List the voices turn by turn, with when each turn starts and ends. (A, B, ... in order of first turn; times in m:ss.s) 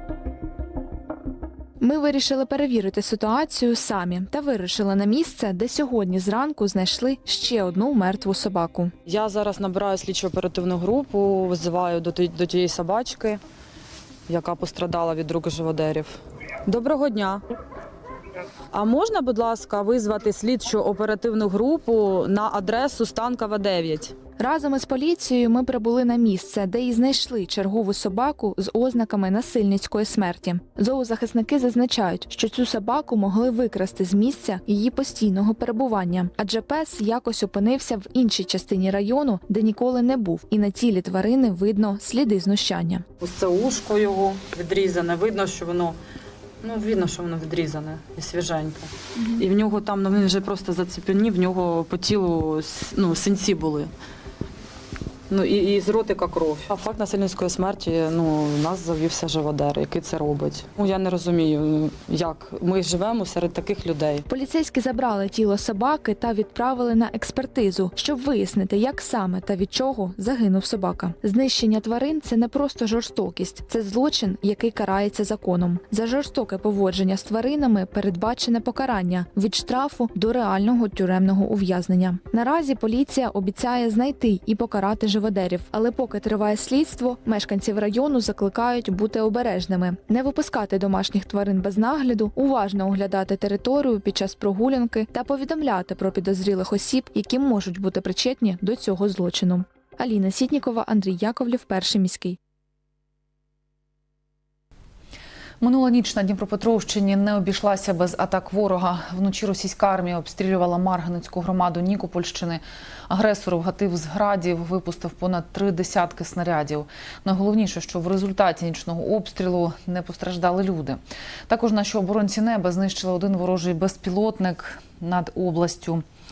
0:01.8-0:08.9 A
0:09.1-0:13.4 B
0:14.3-0:17.4 B
0:18.7-0:24.2 B
0:24.4-0:43.1 A
0:43.2-0:46.0 B
0:46.6-0:53.9 B
0:55.3-1:04.2 B
1:04.3-1:42.4 A
1:45.6-2:06.0 C